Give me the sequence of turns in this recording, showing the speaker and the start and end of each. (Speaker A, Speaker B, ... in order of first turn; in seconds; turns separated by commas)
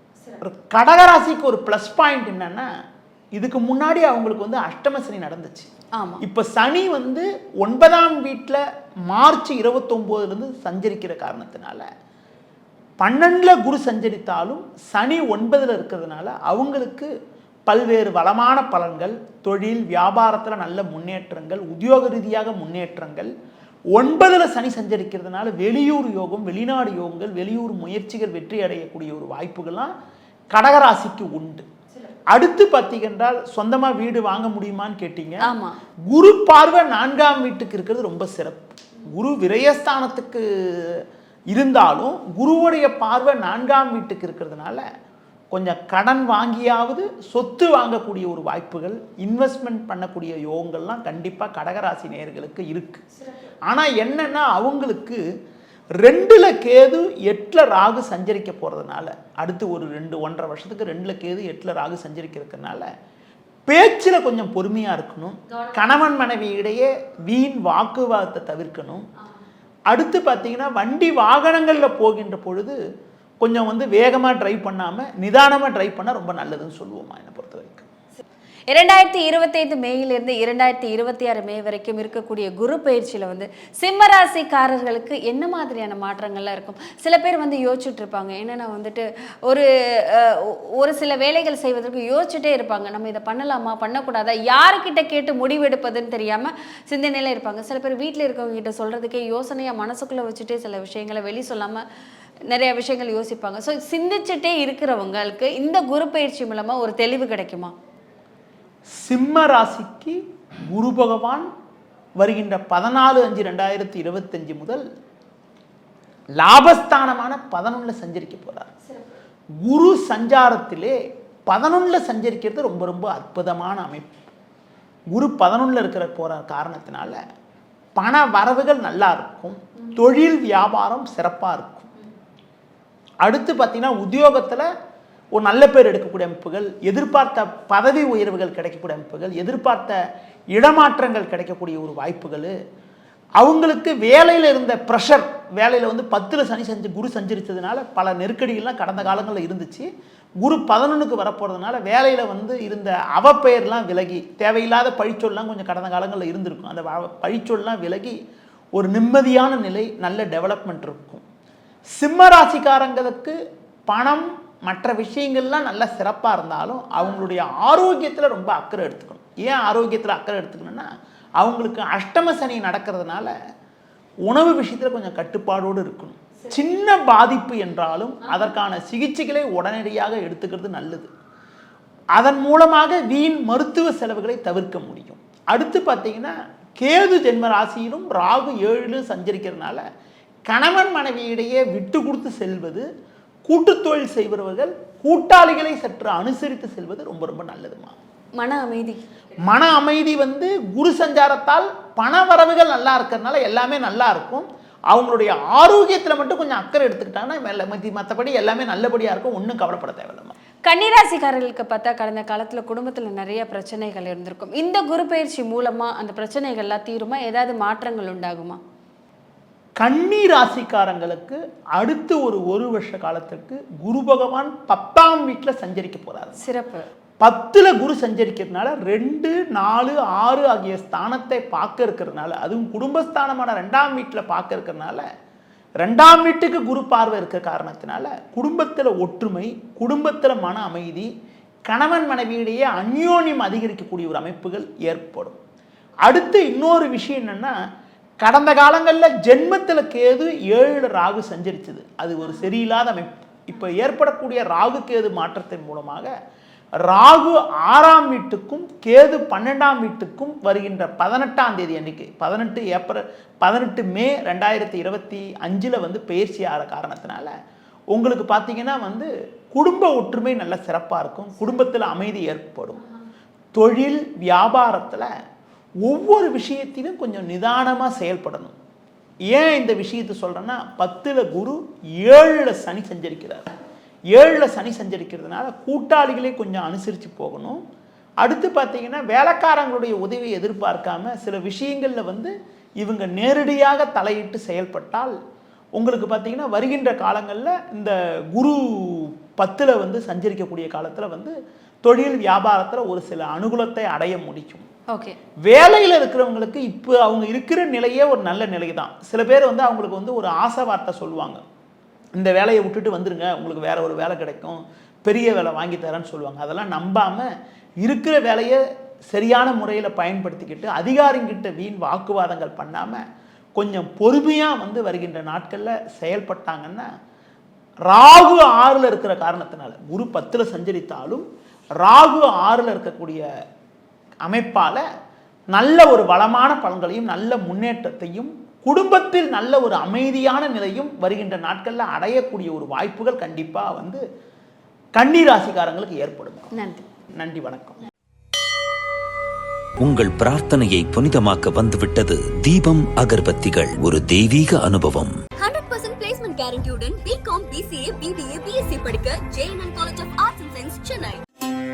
Speaker A: 0.4-2.7, Speaker A: 3.4-5.7, Speaker B: 6.0-6.2, Speaker A: 6.2-11.8, Speaker A: 13.0-17.1, Speaker A: 17.7-23.3, Speaker A: 23.9-29.9, Speaker A: 30.5-31.7, Speaker A: 32.3-35.4, Speaker B: 35.5-35.8, Speaker A: 36.1-44.8, Speaker A: 45.5-53.0, Speaker A: 53.7-55.2, Speaker A: 56.0-62.9, Speaker A: 63.7-69.1, Speaker A: 69.9-72.8, Speaker A: 73.4-77.9, Speaker B: 78.7-101.8, Speaker B: 102.5-107.7, Speaker A: 109.0-111.5, Speaker A: 112.2-114.8, Speaker A: 116.4-118.7, Speaker A: 119.6-121.0, Speaker A: 121.5-124.2, Speaker A: 125.1-127.2, Speaker A: 128.0-131.9, Speaker A: 133.2-134.7, Speaker A: 135.3-140.0, Speaker A: 140.6-142.5, Speaker A: 143.4-149.9, Speaker A: 150.4-158.2, Speaker A: 158.8-161.2, Speaker A: 162.0-163.4, Speaker A: 163.9-170.9, Speaker A: 171.4-173.3, Speaker A: 174.3-181.1, Speaker A: 182.2-189.8, Speaker A: 190.5-192.9, Speaker A: 193.5-198.0, Speaker B: 198.4-199.0, Speaker A: 199.4-210.3, Speaker B: 210.7-218.6, Speaker A: 219.8-226.4, Speaker B: 226.4-226.9, Speaker A: 227.2-235.0, Speaker A: 235.8-241.1, Speaker A: 241.7-245.4, Speaker A: 246.1-247.5, Speaker A: 248.2-256.1, Speaker A: 256.9-267.3, Speaker A: 267.9-272.8, Speaker A: 273.6-275.1, Speaker A: 275.9-278.6, Speaker A: 279.3-283.5, Speaker A: 284.1-287.6, Speaker A: 288.2-295.1, Speaker A: 295.8-304.7, Speaker A: 305.5-311.4, Speaker A: 312.1-317.3, Speaker A: 317.8-323.0, Speaker A: 323.6-326.9, Speaker A: 327.9-331.2, Speaker A: 331.8-333.2, Speaker A: 334.3-334.8, Speaker A: 335.5-344.0, Speaker A: 345.0-346.5, Speaker B: 346.6-346.9, Speaker A: 347.2-347.8, Speaker C: 349.8-355.1, Speaker D: 355.4-361.2